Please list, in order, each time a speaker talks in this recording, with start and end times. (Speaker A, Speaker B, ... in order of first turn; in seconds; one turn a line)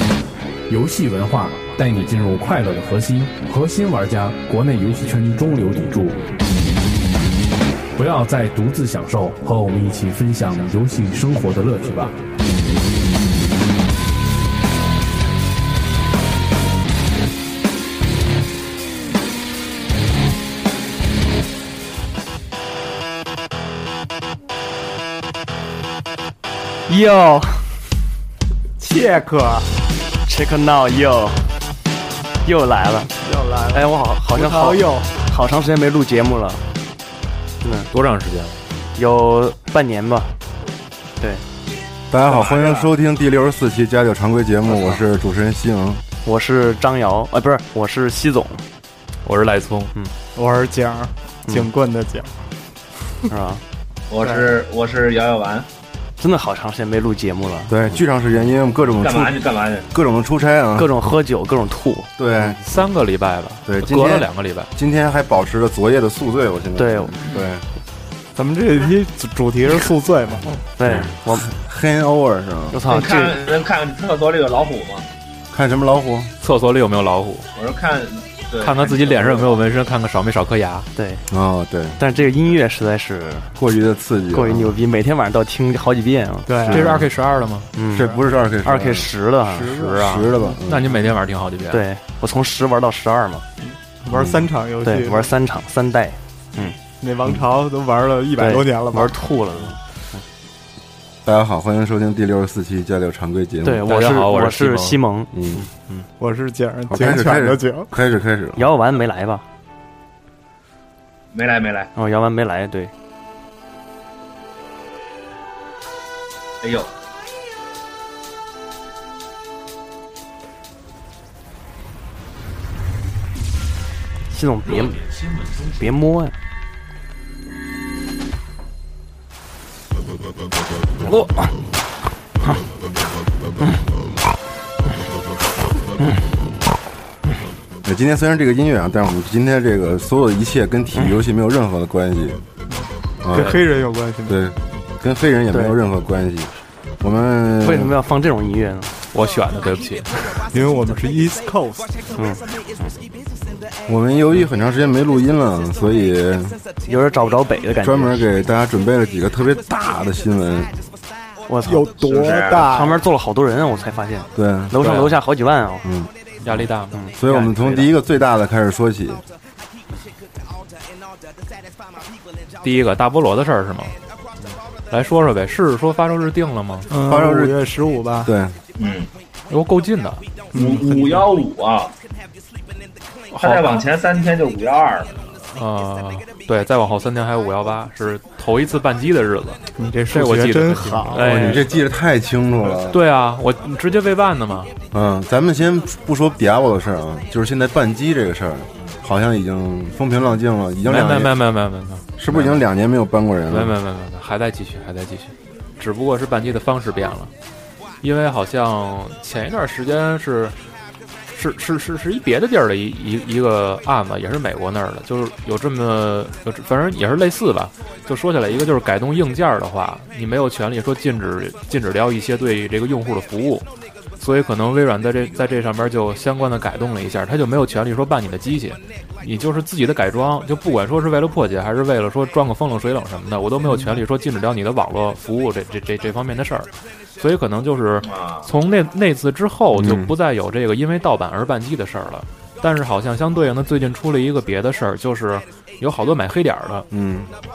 Speaker A: 0.7-6.2
Speaker A: 7.9-12.2
Speaker B: 26.9-27.8
Speaker C: 28.8-29.7
Speaker B: 30.2-31.5
Speaker B: 32.4-33.1
Speaker C: 33.2-35.1
Speaker B: 33.7-36.6
Speaker B: 37.6-37.9
Speaker D: 37.9-38.6
Speaker B: 39.0-40.3
Speaker E: 42.1-46.0
Speaker F: 42.2-42.9
Speaker B: 44.7-45.0
Speaker B: 46.2-48.6
Speaker D: 49.2-49.9
Speaker C: 50.3-52.4
Speaker B: 53.3-53.6
Speaker F: 54.1-55.7
Speaker C: 54.2-54.5
Speaker B: 56.2-58.0
Speaker E: 57.7-60.9
Speaker F: 59.0-59.9
Speaker B: 60.8-62.1
Speaker E: 62.2-62.6
Speaker D: 62.6-64.7
Speaker E: 63.6-67.6
Speaker B: 66.8-67.2
Speaker C: 68.3-70.6
Speaker B: 70.5-71.5
Speaker E: 70.8-72.8
Speaker B: 72.7-73.4
Speaker F: 72.9-75.1
Speaker E: 75.5-76.3
Speaker D: 76.4-77.5
Speaker F: 77.5-79.5
Speaker D: 78.6-80.9
Speaker B: 81.0-81.2
Speaker E: 81.3-82.0
Speaker B: 82.0-83.5
Speaker E: 83.5-84.7
Speaker B: 84.3-86.5
Speaker C: 86.5-86.9
Speaker E: 86.6-87.1
Speaker D: 86.7-87.7
Speaker B: 87.8-88.1
Speaker E: 87.9-89.1
Speaker B: 88.6-89.8
Speaker D: 89.4-91.8
Speaker E: 89.7-91.0
Speaker B: 91.7-93.5
Speaker C: 93.6-95.3
Speaker E: 94.1-94.5
Speaker B: 94.8-96.8
Speaker C: 96.5-99.2
Speaker B: 98.4-100.2
Speaker E: 101.2-103.9
Speaker B: 103.6-106.0
Speaker D: 103.8-105.0
Speaker E: 105.3-105.6
Speaker C: 106.2-107.9
Speaker E: 106.9-108.6
Speaker B: 108.5-109.4
Speaker F: 111.3-111.9
Speaker B: 112.0-112.9
Speaker F: 116.6-116.9
Speaker B: 124.3-126.3
Speaker B: 131.0-131.7
Speaker E: 137.8-142.4
Speaker C: 142.7-144.4
Speaker E: 143.2-143.6
Speaker D: 143.3-143.6
Speaker E: 144.3-147.9
Speaker B: 145.5-145.8
Speaker B: 147.6-148.9
Speaker D: 149.1-150.5
Speaker C: 150.5-152.0
Speaker B: 152.1-152.9
Speaker E: 153.8-156.6
Speaker B: 156.8-158.2
Speaker E: 157.8-160.7
Speaker B: 161.5-161.9
Speaker C: 161.6-163.0
Speaker F: 162.1-162.7
Speaker B: 162.7-165.9
Speaker E: 164.3-164.8
Speaker D: 164.7-165.2
Speaker E: 165.8-166.1
Speaker D: 166.4-166.9
Speaker B: 166.9-167.9
Speaker E: 167.2-169.2
Speaker D: 172.6-173.9
Speaker D: 174.9-176.9
Speaker C: 176.9-178.3
Speaker E: 177.1-177.6
Speaker E: 178.2-178.6
Speaker F: 178.8-179.1
Speaker D: 179.5-180.2
Speaker C: 180.5-181.3
Speaker F: 180.5-181.9
Speaker D: 183.3-183.8
Speaker F: 183.4-185.1
Speaker D: 185.3-189.6
Speaker C: 189.8-191.6
Speaker D: 190.1-191.7
Speaker E: 191.1-193.0
Speaker D: 192.8-194.7
Speaker E: 194.9-201.4
Speaker D: 200.8-202.6
Speaker E: 202.2-203.8
Speaker D: 203.5-207.3
Speaker D: 208.0-210.6
Speaker D: 211.3-223.7
Speaker D: 224.2-246.8
Speaker C: 233.7-234.0
Speaker F: 238.0-238.5
Speaker E: 239.7-240.1
Speaker E: 246.9-247.3